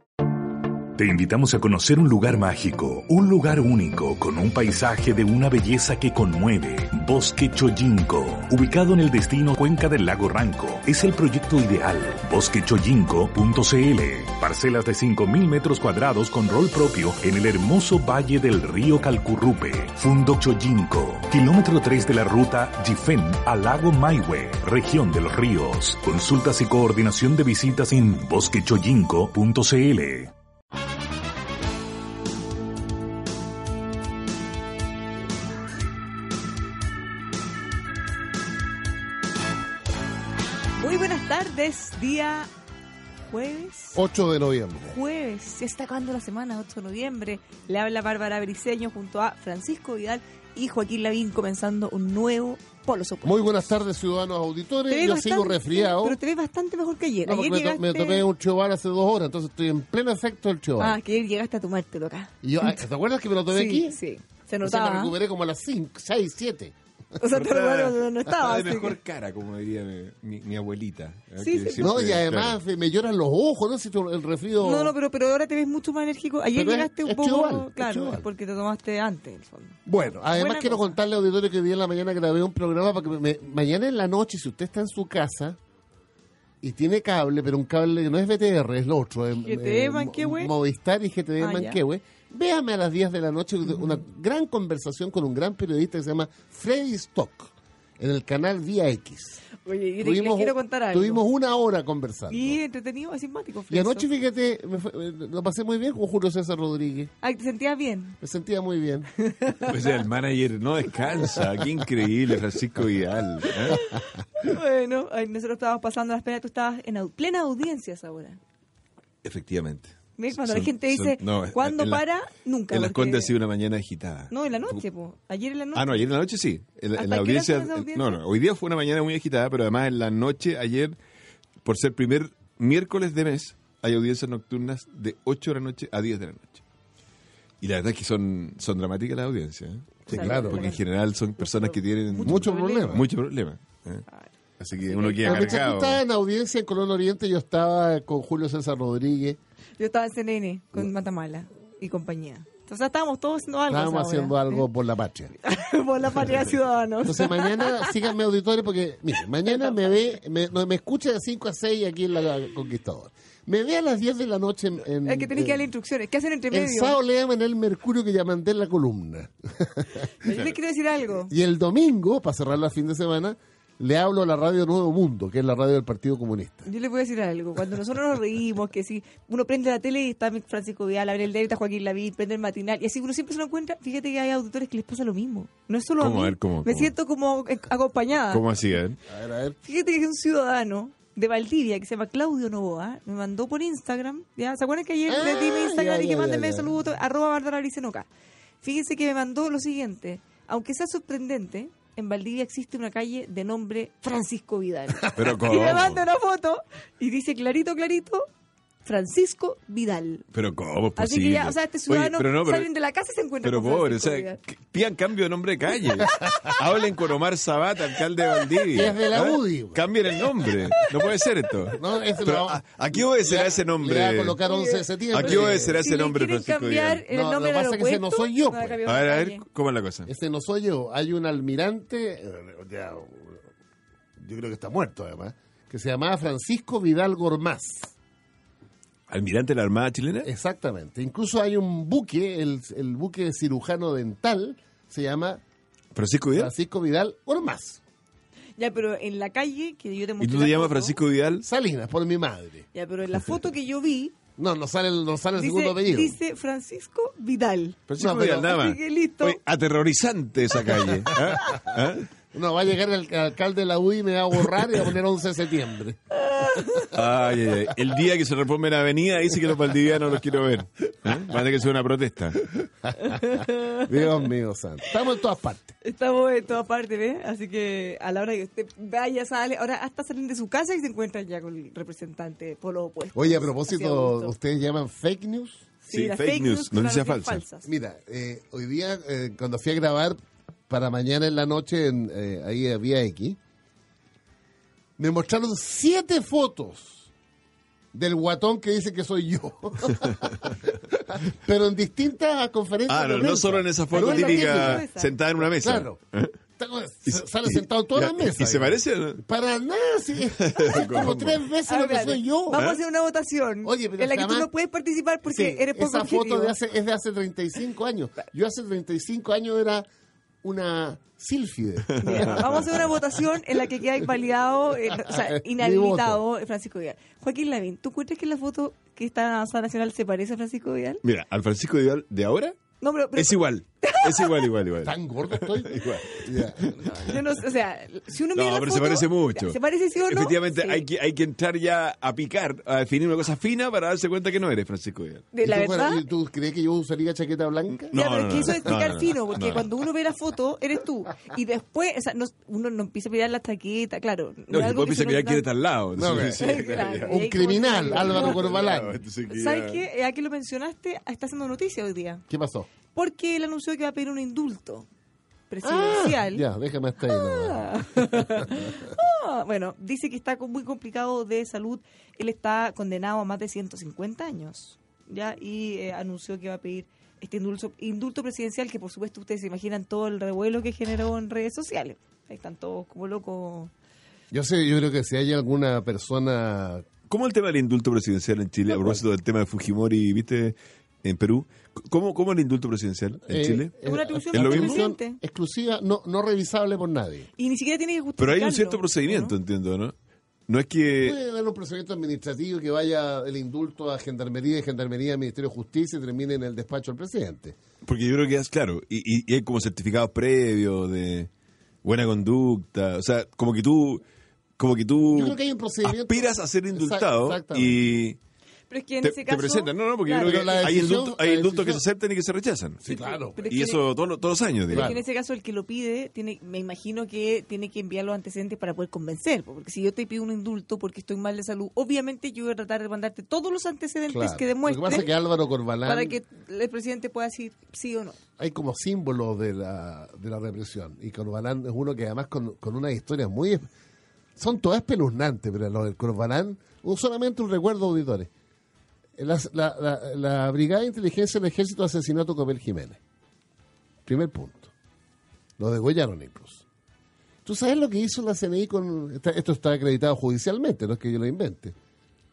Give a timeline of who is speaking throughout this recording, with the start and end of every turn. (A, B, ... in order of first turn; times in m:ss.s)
0:00.9-0:30.3 A
0:40.8-0:42.5 B
0:43.3-0:44.0 B
0:44.0-0:45.0 C
0:44.9-0:53.6 B
0:53.2-0:56.2 C
0:54.9-0:58.3 B
0:57.2-1:01.0 C
1:00.8-1:02.8 B
1:02.4-1:04.0 C
1:03.5-1:05.1 B
1:04.6-1:06.8 C
1:07.2-1:09.0 B
1:07.3-1:12.6 D
1:11.4-1:11.9 B
1:11.8-1:15.0 C
1:14.6-1:20.9 B
1:16.6-1:18.3 C
1:19.9-1:25.6 C
1:26.6-1:39.4 C
1:29.4-1:30.5 B
1:31.4-1:31.8 B
1:39.6-1:41.2 B
1:40.0-1:42.6 C
1:42.3-1:44.1 B
1:43.7-1:47.1 C
1:47.2-1:48.2 B
1:48.2-1:49.1 C
1:49.2-1:49.7 B
1:49.7-1:53.8 D
1:53.7-1:58.4 B
1:59.2-2:02.0 D
2:00.2-2:03.3 B
2:02.7-2:04.8 D
2:04.3-2:06.0 B
2:05.8-2:11.0 D
2:07.0-2:08.2 B
2:11.6-2:16.6 D
2:17.6-2:24.0 D
2:20.1-2:20.7 C
2:20.1-2:20.8 B
2:21.4-2:23.0 B
2:22.2-2:23.1 C
2:24.6-2:26.0 D
2:24.9-2:25.6 B
2:25.2-2:29.4 C
2:29.8-2:34.6 B
2:33.7-2:35.3 C
2:35.4-2:38.0 B
2:37.0-2:45.7 C
2:39.4-2:40.1 B
2:45.0-2:47.0 B
2:46.5-2:50.1 C
2:50.2-2:51.3 B
2:51.3-2:56.7 C
2:56.6-3:08.4 B
3:06.0-3:06.9 D
3:08.3-3:09.0 D
3:09.1-3:09.6 C
3:09.6-3:18.1 B
3:15.1-3:16.8 C
3:18.6-3:28.3 B
3:25.2-3:26.0 D
3:28.8-3:30.3 B
3:30.3-3:32.7 D
3:31.0-3:34.4 B
3:33.4-3:44.4 D
3:38.7-3:39.9 C
3:41.7-3:45.8 C
3:44.5-3:49.4 B
3:45.1-3:47.0 D
3:47.1-3:48.8 C
3:48.9-3:50.1 D
3:50.1-3:53.4 C
3:54.2-3:57.9 C
3:59.1-4:00.3 D
4:00.2-4:05.4 C
4:06.0-4:06.5 D
4:06.4-4:07.8 C
4:08.6-4:11.0 B
4:10.2-4:11.4 D
4:11.4-4:12.7 C
4:12.7-4:14.2 B
4:14.4-4:16.2 C
4:15.4-4:19.4 B
4:17.9-4:22.1 D
4:18.0-4:18.5 C
4:21.1-4:21.5 C
4:22.3-4:26.0 C
4:26.1-4:26.9 B
4:26.9-4:32.5 D
4:33.0-4:34.2 B
4:33.8-4:35.8 C
4:35.8-4:44.3 B
4:43.2-4:45.7 C
4:45.8-4:47.7 B
4:45.9-4:47.4 D
4:47.7-4:53.4 C
4:55.0-4:57.1 C
4:57.9-5:04.9 C
5:02.9-5:06.3 D
5:04.0-5:05.1 B
5:05.4-5:06.0 C
5:06.6-5:12.6 C
5:07.1-5:09.2 D
5:10.4-5:11.4 D
5:11.7-5:16.6 B
5:13.6-5:14.5 C
5:15.2-5:19.9 C
5:20.4-5:22.8 C
5:21.9-5:22.7 D
5:22.0-5:31.0 B
5:24.9-5:26.2 C
5:31.0-5:32.6 D
5:32.8-5:34.5 B
5:33.2-5:37.2 D
5:34.8-5:36.8 C
5:36.8-5:40.8 B
5:38.3-5:45.3 D
5:45.3-5:46.0 B
5:45.4-5:47.9 C
5:47.7-5:49.7 D
5:47.9-5:55.4 B
5:54.5-5:57.2 D
5:56.0-5:59.0 C
5:56.2-5:58.4 B
5:57.9-5:59.8 D
5:59.3-6:02.2 B
6:02.3-6:02.7 C
6:02.9-6:04.9 B
6:05.5-6:06.5 B
6:05.6-6:08.9 C
6:07.0-6:23.7 B
6:24.3-6:26.9 C
6:27.1-6:33.7 D
6:33.3-6:37.3 C
6:33.8-6:35.2 B
6:34.3-6:34.9 D
6:37.4-6:39.4 B
6:38.2-6:39.9 D
6:40.5-6:41.2 D
6:41.0-6:47.6 C
6:47.8-6:51.3 D
6:51.8-6:54.0 D
6:54.6-6:58.2 D
6:55.1-6:58.0 C
6:58.7-7:00.5 B
6:59.0-7:02.8 D
7:00.2-7:01.8 C
7:02.8-7:03.5 C
7:02.9-7:03.8 B
7:03.5-7:05.0 D
7:04.7-7:15.1 B
7:04.7-7:05.0 C
7:14.1-7:16.2 C
7:15.8-7:18.2 B
7:18.4-7:23.7 C
7:24.4-7:28.3 C
7:29.2-7:33.0 C
7:34.0-7:34.7 C
7:35.6-7:36.6 C
7:37.4-7:41.8 C